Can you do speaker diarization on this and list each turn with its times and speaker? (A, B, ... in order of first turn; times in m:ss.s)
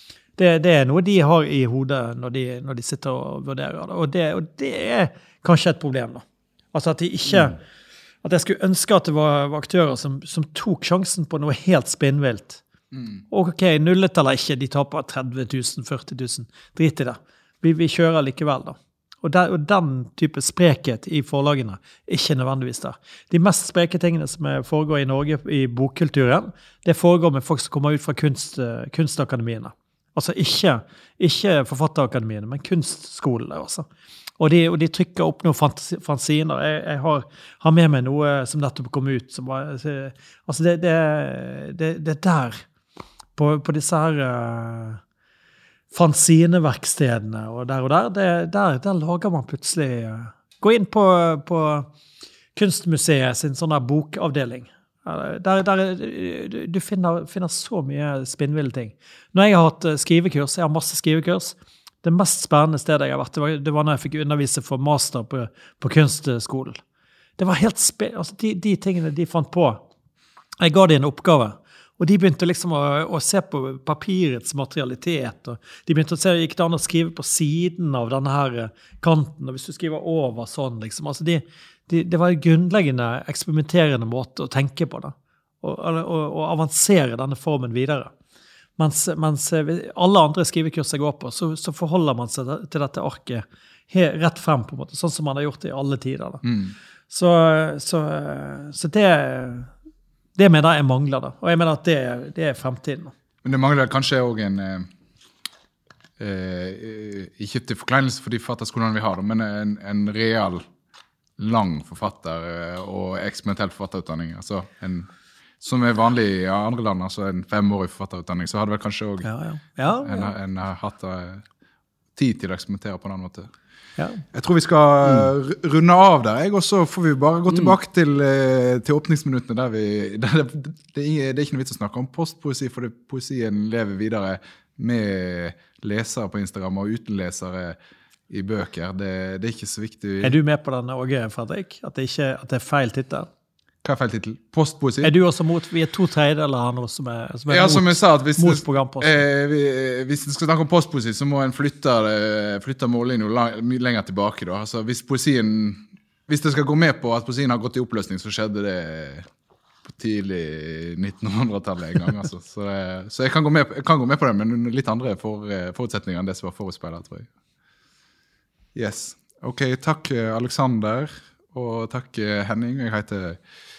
0:00.4-0:07.6 A
0:08.2-0:12.6 A
0:13.3-0:33.8 A
0:34.4-0:42.6 A
0:43.4-0:45.0 A
0:45.9-0:51.9 A
0:52.5-1:06.8 A
1:07.4-1:09.8 A
1:10.6-1:28.1 A
1:28.8-1:36.4 A
1:36.4-1:36.7 B
1:37.1-1:39.7 A
1:40.4-1:43.1 A
1:43.4-1:44.9 B
1:46.2-1:50.6 B
1:51.4-1:55.1 B
1:55.6-1:59.3 B
1:59.2-2:00.3 A
1:59.9-2:01.4 B
2:02.2-2:03.5 B
2:04.0-2:04.2 A
2:04.3-2:17.8 B
2:18.3-2:20.4 B
2:20.2-2:23.3 A
2:23.8-2:25.1 B
2:25.0-2:29.2 A
2:27.5-2:39.3 B
2:39.8-2:47.3 B
2:48.7-2:53.4 B